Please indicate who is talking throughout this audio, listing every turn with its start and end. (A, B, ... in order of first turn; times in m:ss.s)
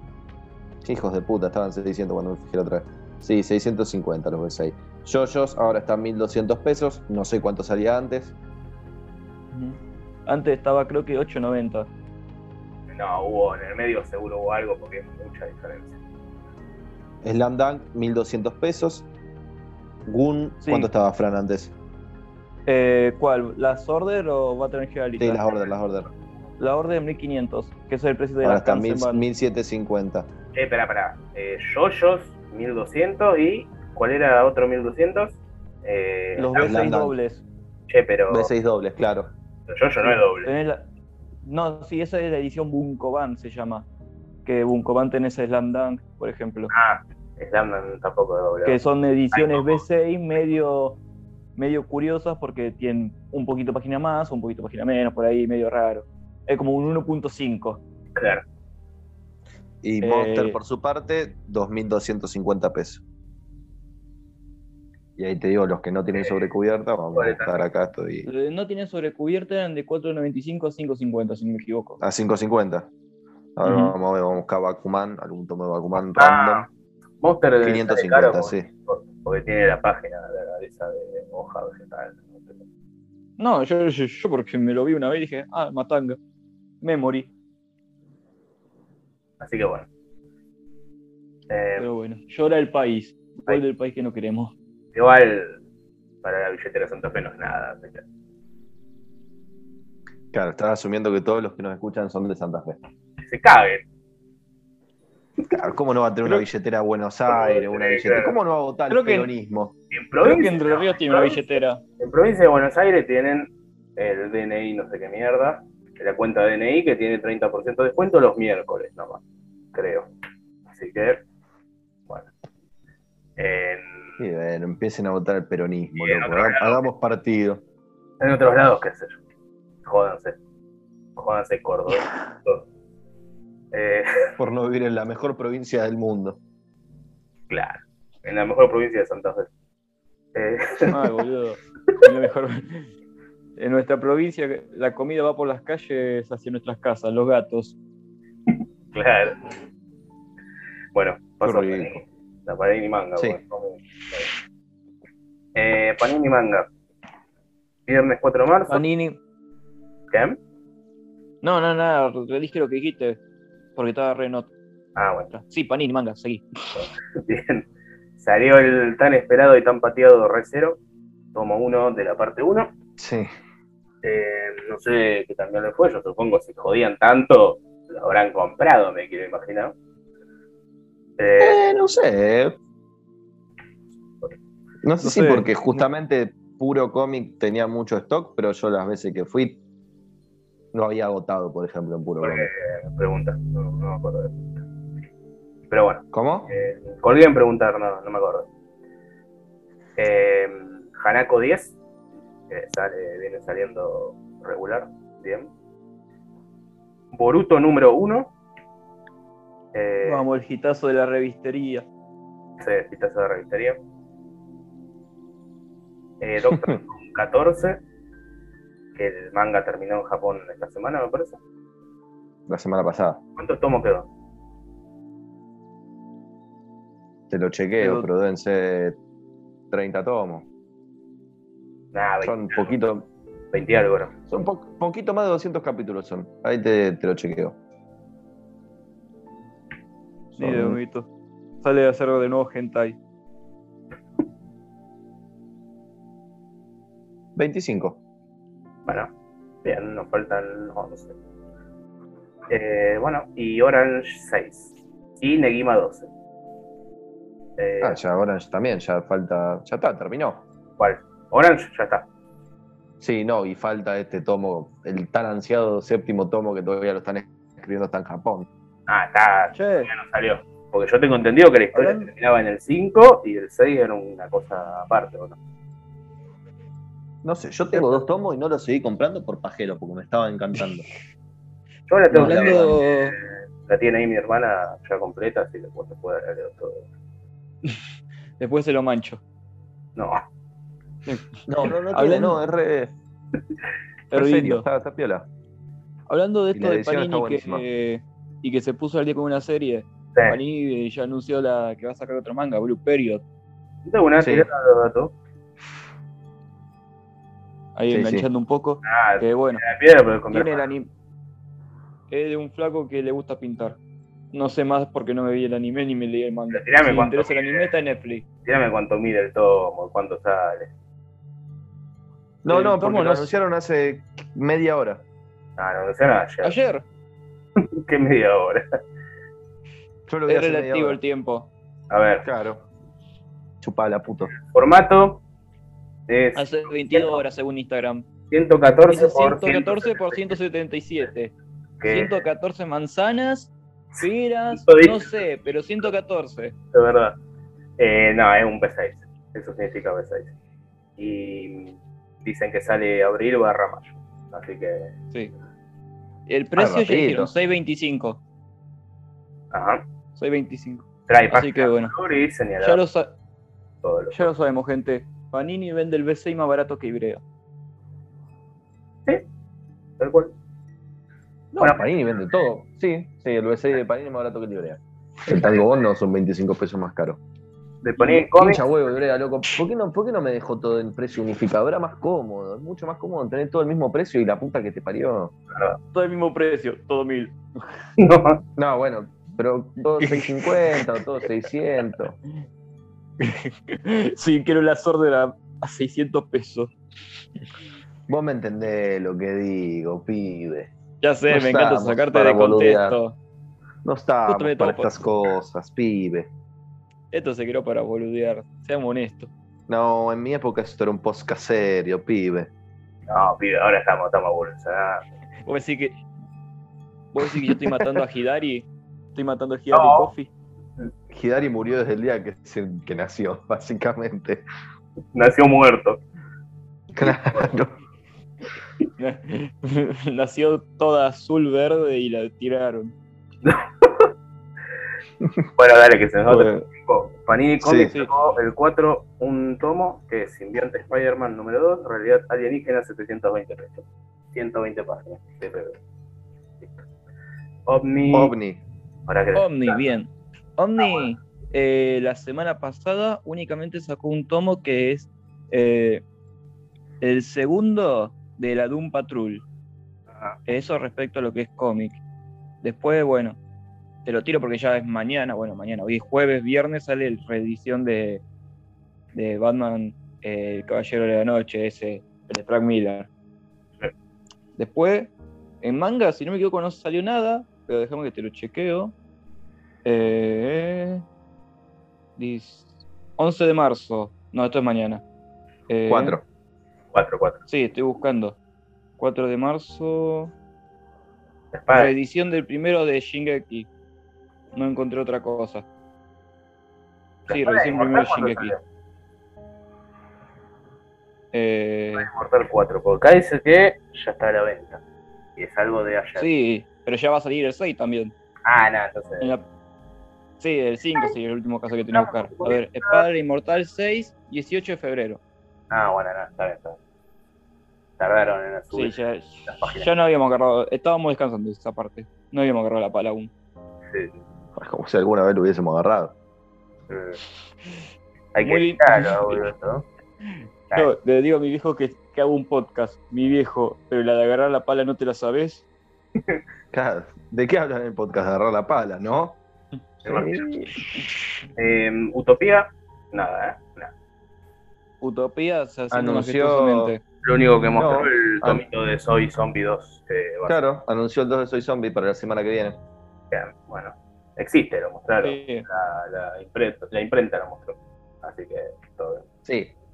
0:00.8-0:08.3 A
0:09.5-0:11.9 B
0:12.9-0:16.0 C
0:17.2-0:19.1 A
0:20.0-0:21.7 A
0:20.6-0:20.9 B
0:22.7-0:25.6 B
0:25.2-0:26.1 A
0:26.6-0:29.2 B
0:28.4-0:30.3 A
0:30.5-0:36.8 C
0:36.4-0:37.4 B
0:36.6-0:37.1 A
0:37.9-0:38.5 C
0:38.3-0:39.3 A
0:39.7-0:40.5 C
0:40.0-0:40.8 B
0:41.4-0:43.9 B
0:44.4-0:46.7 B
0:46.7-0:48.8 C
0:48.6-0:51.0 B
0:49.3-0:49.8 C
0:51.6-0:57.8 B
0:58.1-0:58.4 C
0:59.8-1:03.0 A
1:00.0-1:00.6 B
1:05.2-1:08.3 A
1:06.2-1:06.5 C
1:07.1-1:07.6 C
1:08.2-1:12.0 B
1:12.0-1:12.9 A
1:13.6-1:16.7 A
1:13.6-1:13.9 B
1:16.0-1:16.7 C
1:17.2-1:22.6 C
1:17.6-1:18.7 A
1:23.4-1:26.2 B
1:26.8-1:27.3 B
1:29.4-1:29.9 C
1:31.5-1:31.9 C
1:31.8-1:34.5 B
1:34.9-1:35.6 C
1:36.2-1:38.0 C
1:40.3-1:42.8 A
1:43.2-1:43.8 C
1:45.5-1:49.7 A
1:47.3-1:48.4 C
1:48.9-1:49.3 B
1:49.9-1:51.4 C
1:50.2-1:51.8 B
1:52.0-1:59.2 C
1:59.7-2:00.1 C
2:00.7-2:01.2 C
2:03.4-2:04.2 C
2:04.2-2:07.6 A
2:06.0-2:06.8 C
2:08.2-2:09.2 C
2:09.8-2:10.4 C
2:11.2-2:12.6 C
2:13.7-2:14.3 C
2:14.4-2:16.4 A
2:17.5-2:19.5 C
2:20.3-2:21.0 C
2:20.9-2:22.9 B
2:23.6-2:27.8 B
2:28.9-2:29.5 C
2:30.9-2:34.3 C
2:31.4-2:32.0 A
2:35.5-2:36.7 C
2:37.9-2:38.8 C
2:38.7-2:39.2 B
2:40.1-2:40.4 C
2:41.4-2:43.2 B
2:43.8-2:44.5 B
2:45.0-2:45.3 C
2:45.3-2:46.4 B
2:46.8-2:47.6 C
2:48.2-2:50.8 C
2:51.3-2:52.7 C
2:53.0-2:53.3 A
2:54.0-2:59.7 C
3:01.2-3:01.6 C
3:01.4-3:02.6 A
3:04.8-3:09.6 A
3:05.0-3:05.5 B
3:10.7-3:12.5 A
3:12.2-3:14.6 C
3:15.7-3:18.5 C
3:16.1-3:16.5 A
3:20.0-3:21.8 C
3:22.5-3:25.5 C
3:27.1-3:28.3 C
3:29.7-3:30.2 C
3:30.0-3:31.8 B
3:32.6-3:33.8 C
3:36.2-3:37.8 C
3:36.5-3:36.8 A
3:38.9-3:41.4 C
3:42.5-3:43.2 A
3:43.4-3:44.1 C
3:47.3-3:49.0 A
3:47.8-3:48.1 B
3:49.7-3:50.4 A
3:51.9-3:52.8 C
3:52.2-3:53.1 A
3:53.5-3:54.1 C
3:54.3-3:57.6 A
4:00.3-4:01.1 B
4:00.4-4:00.8 A
4:01.6-4:03.0 B
4:07.4-4:08.0 A
4:09.6-4:11.1 C
4:12.5-4:16.1 C
4:17.6-4:18.0 C
4:17.8-4:20.4 A
4:20.8-4:22.1 C
4:23.0-4:28.5 A
4:28.9-4:35.4 C
4:29.5-4:29.9 B
4:31.7-4:32.1 B
4:37.2-4:40.8 A
4:41.9-4:46.9 C
4:42.1-4:42.8 A
4:42.1-4:43.2 B
4:48.4-4:49.2 B
4:50.0-4:50.2 C
4:51.0-4:51.3 B
4:51.5-4:52.9 A
4:51.9-4:52.4 B
4:54.1-4:54.6 B
4:54.1-4:55.3 A
4:56.1-5:03.2 B
4:56.5-4:57.6 A
5:03.8-5:05.1 C
5:04.2-5:04.5 A
5:07.8-5:09.6 B
5:07.9-5:08.3 A
5:08.8-5:10.6 C
5:10.3-5:10.9 B
5:12.1-5:13.8 B
5:14.3-5:18.2 B
5:16.5-5:17.7 C
5:18.4-5:20.7 C
5:22.4-5:25.0 A
5:22.5-5:23.3 B
5:25.6-5:26.5 C
5:26.4-5:26.8 B
5:27.6-5:28.8 C
5:30.1-5:31.0 A
5:30.3-5:31.5 B
5:31.9-5:32.2 C
5:32.2-5:32.6 A
5:33.6-5:34.4 A
5:34.5-5:35.2 C
5:36.1-5:37.2 C
5:36.4-5:38.0 B
5:38.3-5:40.3 C
5:38.9-5:41.3 B
5:41.8-5:42.1 C
5:41.8-5:46.5 B
5:43.9-5:45.2 C
5:46.7-5:47.2 C
5:47.8-5:50.3 C
5:51.0-5:54.9 C
5:56.3-5:58.2 B
5:56.6-5:57.3 A
5:59.5-5:59.8 C
6:00.2-6:01.9 B
6:01.1-6:02.8 C
6:02.6-6:03.1 B
6:03.8-6:04.3 C
6:04.1-6:07.2 B
6:10.0-6:10.3 C
6:11.5-6:17.2 A
6:11.6-6:11.9 C
6:17.8-6:18.6 C
6:18.0-6:25.3 A
6:25.5-6:25.8 C
6:25.9-6:27.6 B
6:28.0-6:28.4 C
6:28.6-6:32.2 A
6:30.0-6:30.8 B
6:33.2-6:36.7 B
6:38.1-6:40.7 A
6:41.0-6:43.2 B
6:41.3-6:43.0 A
6:43.8-6:46.3 A
6:44.3-6:44.9 B
6:47.1-6:49.3 B
6:49.7-6:52.5 A
6:53.1-6:55.0 C
6:55.4-6:56.0 B
6:57.1-7:00.3 B
6:59.7-7:00.1 C
7:01.1-7:04.4 A
7:05.1-7:06.0 C
7:06.9-7:07.8 A
7:07.0-7:07.5 C
7:09.0-7:12.9 B
7:13.4-7:14.1 C
7:15.6-7:25.8 C
7:16.3-7:16.6 B
7:17.6-7:17.9 A
7:27.6-7:28.3 C
7:28.1-7:28.6 A
7:29.1-7:29.8 C
7:29.3-7:36.0 B
7:30.8-7:31.0 C
7:37.0-7:39.4 B
7:40.5-7:42.0 B
7:42.6-7:43.4 B
7:44.0-7:48.2 B
7:49.1-7:53.1 B
7:54.6-7:55.1 B
7:55.6-7:58.9 B
7:59.8-8:01.0 B
8:02.2-8:05.0 B
8:05.7-8:06.2 B
8:05.9-8:06.2 A
8:06.9-8:07.4 C
8:07.5-8:08.4 B
8:09.0-8:10.3 B
8:11.5-8:11.9 C
8:11.7-8:13.7 B
8:14.5-8:15.6 B
8:17.3-8:18.6 C
8:17.3-8:18.6 B
8:21.3-8:22.1 B
8:22.0-8:24.8 C
8:25.4-8:26.3 C
8:26.2-8:28.1 B
8:28.4-8:29.3 C
8:29.2-8:29.4 B
8:30.4-8:35.2 B
8:31.9-8:33.0 C
8:35.7-8:36.8 C
8:38.0-8:38.9 C
8:38.7-8:43.3 B
8:39.4-8:39.9 C
8:43.9-8:44.1 C
8:44.6-8:46.1 A
8:46.9-8:47.2 C
8:48.3-8:49.8 C
8:48.4-8:49.4 B
8:50.3-8:55.6 B
8:56.7-8:59.4 A
9:00.0-9:00.7 A
9:00.0-9:00.4 C
9:01.6-9:03.9 C
9:05.0-9:07.0 B
9:05.9-9:07.0 A
9:07.2-9:10.6 C
9:07.7-9:08.6 A
9:10.5-9:12.8 A
9:13.3-9:19.2 C
9:15.2-9:15.6 B
9:19.4-9:19.7 A